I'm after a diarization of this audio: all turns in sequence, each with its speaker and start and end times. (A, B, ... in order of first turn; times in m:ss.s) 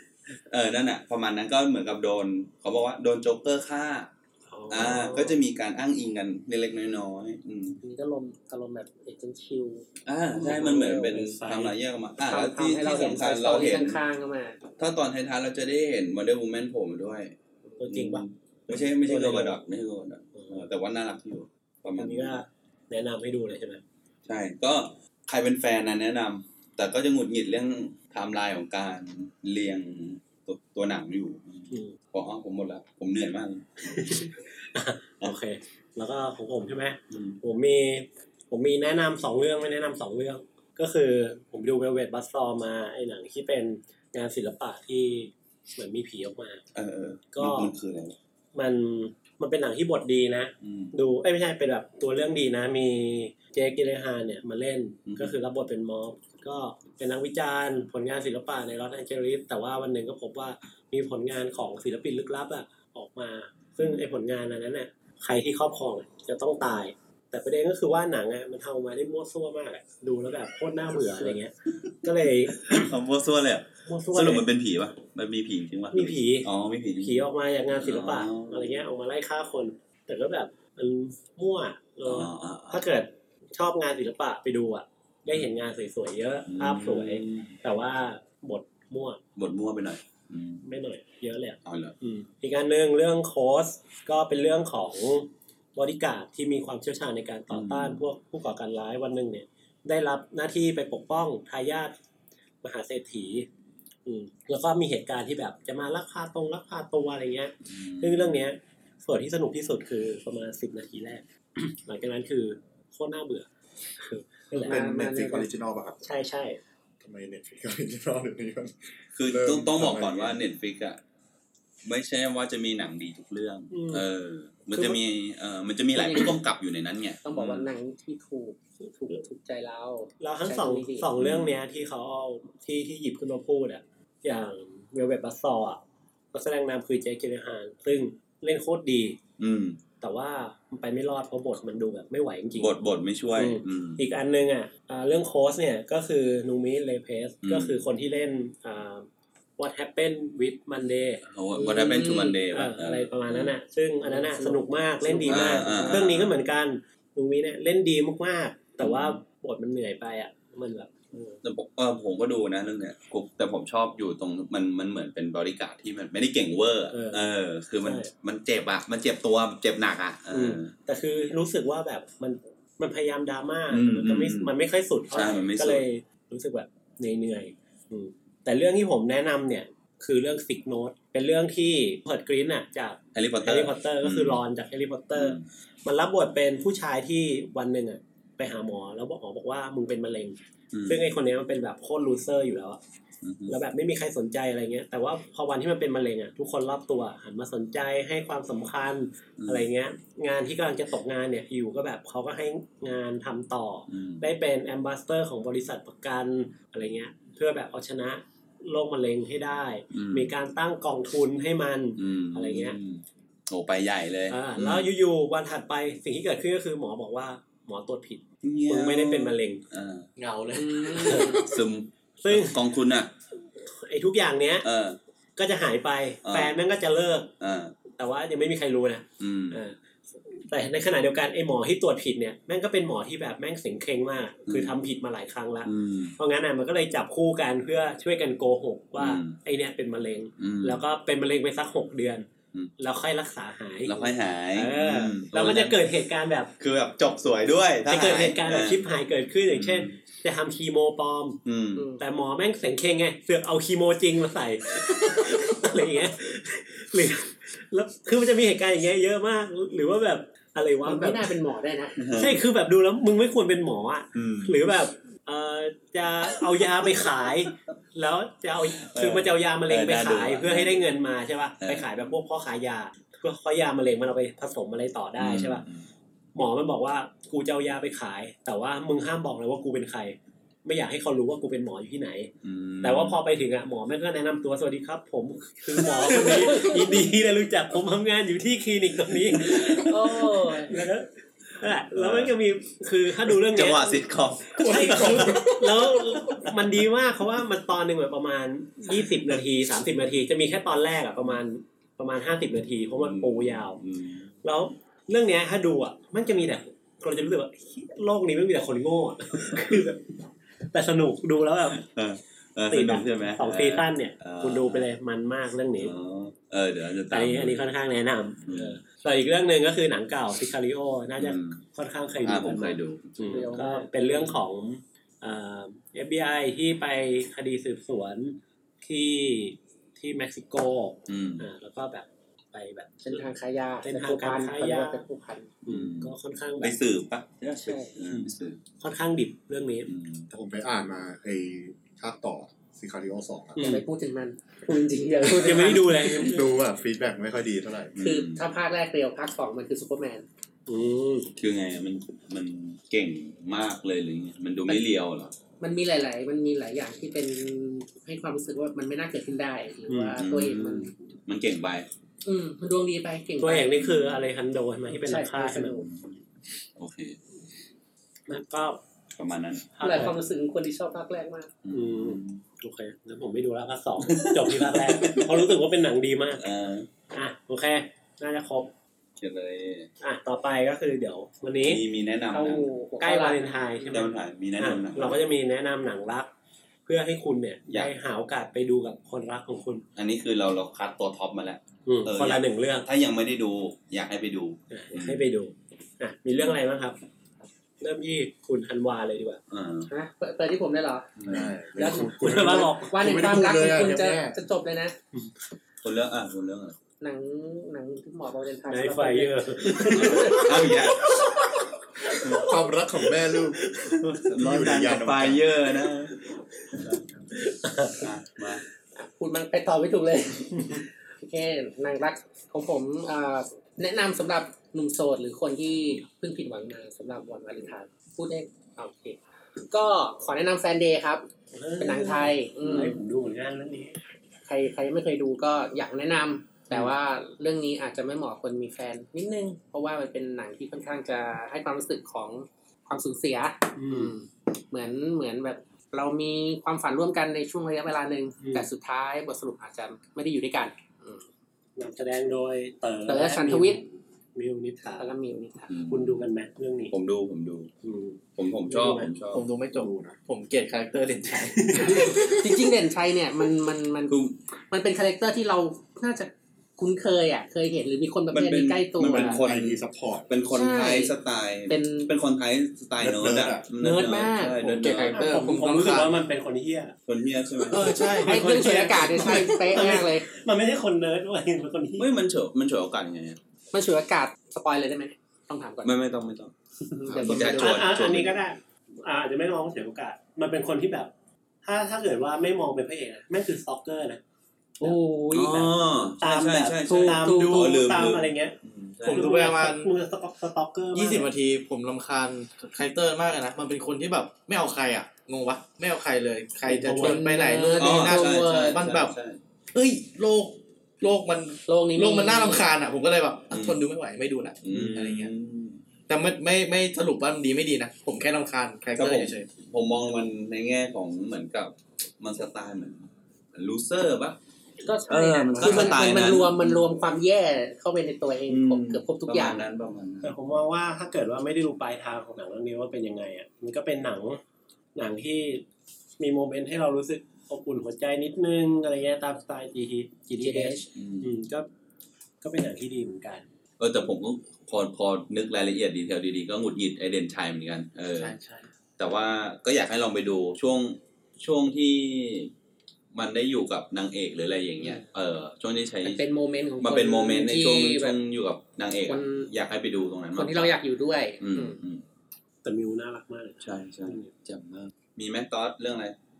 0:00.5-0:04.1 A
0:04.5-0:05.4 B
0:04.7-0:07.8 A
0:07.8-0:09.8 C
0:10.0-0:14.0 A
0:10.4-0:11.3 C
0:10.4-0:11.7 B
0:12.2-0:14.6 C
0:14.8-0:17.3 A
0:17.8-0:19.6 B
0:17.8-0:22.4 A
0:20.3-0:20.6 B
0:22.0-0:23.8 B
0:24.2-0:34.1 A
0:31.7-0:32.0 B
0:33.9-0:46.6 B
0:37.1-0:37.4 A
0:46.7-0:48.2 A
0:47.3-0:47.7 B
0:48.5-1:12.9 B
0:50.6-0:50.9 A
0:55.0-0:55.3 A
1:12.5-1:18.8 A
1:13.8-1:14.4 B
1:15.9-1:16.5 B
1:17.0-1:29.2 B
1:22.0-1:22.8 A
1:26.5-1:27.5 A
1:29.4-1:30.6 A
1:30.6-1:41.9 B
1:31.6-1:32.0 A
1:37.5-1:38.0 A
1:42.6-1:43.5 B
1:44.0-1:53.5 B
1:47.6-1:48.4 A
1:54.0-1:54.8 B
1:54.6-1:55.4 C
1:54.6-1:56.0 D
1:56.0-1:56.6 B
1:57.0-2:00.4 D
1:59.2-2:01.0 A
2:01.8-2:07.7 A
2:03.7-2:04.0 B
2:05.9-2:06.4 C
2:07.2-2:11.1 C
2:10.2-2:15.8 B
2:11.2-2:11.6 A
2:16.3-2:19.2 B
2:19.4-2:19.8 A
2:20.0-2:22.7 B
2:22.6-2:24.0 A
2:23.4-2:31.2 B
2:27.4-2:27.8 A
2:31.2-2:33.5 A
2:31.5-2:32.4 C
2:32.5-2:41.4 B
2:34.0-2:36.1 C
2:35.3-2:36.3 A
2:38.8-2:39.2 A
2:41.4-2:50.7 A
2:46.9-2:47.2 B
2:47.8-2:48.1 B
2:50.3-3:12.8 B
2:53.7-2:54.5 A
2:55.1-2:55.8 A
3:03.1-3:04.4 A
3:05.1-3:05.4 A
3:10.7-3:11.0 A
3:13.2-3:13.5 A
3:13.5-3:32.8 B
3:19.4-3:19.6 A
3:23.9-3:24.2 A
3:29.9-3:30.3 A
3:32.0-3:34.9 A
3:34.3-3:39.6 B
3:38.4-3:40.1 A
3:40.2-3:41.4 E
3:40.6-3:41.4 C
3:40.9-3:41.5 B
3:41.3-3:43.1 A
3:42.2-3:42.6 B
3:43.6-3:44.7 B
3:44.6-3:45.0 A
3:45.4-3:47.3 B
3:46.2-3:46.5 A
3:47.4-3:47.7 A
3:48.0-3:49.8 B
3:49.2-3:49.6 A
3:50.3-4:02.3 B
3:54.5-3:54.7 A
3:55.6-3:56.1 A
3:59.0-3:59.4 A
4:00.4-4:00.8 A
4:02.8-4:06.5 B
4:03.8-4:05.8 A
4:06.6-4:08.9 A
4:07.8-4:11.4 B
4:09.5-4:10.0 A
4:11.4-4:11.9 A
4:11.8-4:12.0 C
4:12.0-4:21.4 B
4:20.8-4:22.0 C
4:22.0-4:22.4 A
4:22.1-4:35.6 B
4:24.1-4:24.5 A
4:28.8-4:30.9 A
4:35.2-4:35.8 A
4:36.3-4:54.0 B
4:42.4-4:43.2 A
4:46.5-4:46.8 C
4:49.4-4:50.8 C
4:52.0-4:52.3 A
4:53.3-4:55.5 A
4:54.6-5:03.8 B
4:54.6-4:55.7 D
5:03.0-5:04.3 A
5:04.4-5:10.1 B
5:10.7-5:11.8 B
5:11.7-5:14.8 A
5:12.7-5:15.9 B
5:15.8-5:17.7 A
5:17.1-5:33.3 B
5:18.4-5:18.8 A
5:21.2-5:21.6 A
5:22.2-5:23.6 A
5:23.3-5:24.2 C
5:31.1-5:31.4 A
5:33.0-5:35.5 C
5:33.8-5:35.0 B
5:35.6-5:36.8 B
5:35.6-5:38.6 A
5:37.6-5:37.9 C
5:38.8-5:39.9 B
5:39.9-5:40.3 A
5:40.3-5:43.6 D
5:43.6-5:43.8 B
5:43.6-5:46.4 C
5:45.3-5:46.5 B
5:46.2-5:47.9 D
5:47.9-5:48.5 A
5:48.0-5:50.2 C
5:50.7-5:51.3 B
5:51.4-5:55.3 A
5:55.6-6:00.9 C
5:59.9-6:00.2 B
6:00.2-6:01.9 A
6:02.2-6:03.7 C
6:03.4-6:05.8 B
6:03.7-6:04.2 A
6:04.9-6:05.9 C
6:05.8-6:06.2 A
6:06.8-6:07.2 A
6:08.3-6:08.8 B
6:09.1-6:09.7 A
6:09.8-6:10.1 B
6:09.8-6:11.5 C
6:11.6-6:12.4 A
6:11.7-6:16.4 B
6:14.0-6:15.5 A
6:16.4-6:16.9 A
6:17.1-6:18.7 B
6:19.2-6:19.9 A
6:20.0-6:21.8 B
6:21.6-6:22.7 A
6:22.3-6:24.0 C
6:23.0-6:26.3 B
6:23.9-6:25.2 A
6:26.8-6:29.8 B
6:30.0-6:35.2 A
6:31.8-6:32.9 B
6:34.7-6:37.0 B
6:37.8-6:39.4 B
6:39.5-6:39.9 A
6:39.9-6:41.1 C
6:41.2-6:41.5 A
6:41.3-6:44.4 D
6:41.7-6:45.0 C
6:42.2-6:43.0 B
6:45.8-6:46.8 A
6:47.0-6:50.6 C
6:48.7-6:50.5 B
6:49.9-6:51.1 A
6:52.2-6:55.4 D
6:53.7-6:54.2 B
6:54.2-6:56.2 A
6:56.7-6:57.0 A
6:57.4-6:58.0 B
6:57.9-6:58.6 A
6:58.9-7:09.2 C
7:09.7-7:11.3 C
7:11.5-7:14.0 B
7:11.8-7:13.0 C
7:14.4-7:31.2 C
7:23.8-7:24.1 B
7:28.4-7:28.7 B
7:31.8-7:35.1 B
7:33.1-7:33.8 C
7:35.0-7:35.7 C
7:35.7-7:36.2 A
7:35.9-7:36.9 B
7:36.9-7:37.7 A
7:37.8-7:39.1 B
7:38.4-7:39.4 A
7:39.3-7:42.3 E
7:39.7-7:40.2 D
7:41.5-7:42.4 B
7:42.1-7:44.2 C
7:44.1-7:44.4 A
7:44.7-7:49.4 C
7:48.3-7:55.2 A
7:49.1-7:50.3 D
7:50.5-7:51.1 C
7:51.7-7:52.1 C
7:53.0-7:53.7 D
7:53.8-7:55.3 C
7:54.6-7:56.2 E
7:55.1-7:56.9 B
7:57.1-7:58.0 A
7:57.7-7:59.6 E
7:57.8-8:02.1 B
7:58.2-8:00.3 C
8:02.0-8:03.4 A
8:03.7-8:05.9 C
8:05.8-8:06.5 A
8:06.9-8:07.9 C
8:07.0-8:08.4 A
8:07.3-8:11.1 B
8:11.6-8:14.2 B
8:14.8-8:16.1 C
8:15.3-8:19.3 A
8:16.2-8:18.6 B
8:16.8-8:17.7 C
8:17.3-8:17.9 E
8:19.0-8:19.9 E
8:19.1-8:21.3 B
8:20.9-8:29.2 E
8:26.6-8:27.2 B
8:26.9-8:28.8 C
8:27.8-8:29.4 A
8:29.7-8:35.3 E
8:31.7-8:32.7 C
8:33.5-8:33.8 A
8:34.6-8:35.8 A
8:36.1-8:39.5 E
8:39.0-8:44.4 A
8:44.8-8:49.6 C
8:45.1-8:46.8 A
8:45.6-8:45.9 E
8:48.5-8:50.3 A
8:50.2-8:54.4 B
8:54.9-8:55.6 B
8:56.2-9:01.7 B
9:00.4-9:00.9 C
9:00.9-9:01.3 A
9:02.4-9:03.4 B
9:03.8-9:08.3 A
9:08.2-9:08.7 E
9:09.0-9:12.5 A
9:13.1-9:16.2 A
9:16.0-9:18.2 C
9:16.8-9:20.8 A
9:19.1-9:19.5 C
9:20.4-9:21.8 C
9:21.4-9:22.0 A
9:22.6-9:24.3 B
9:23.6-9:26.2 A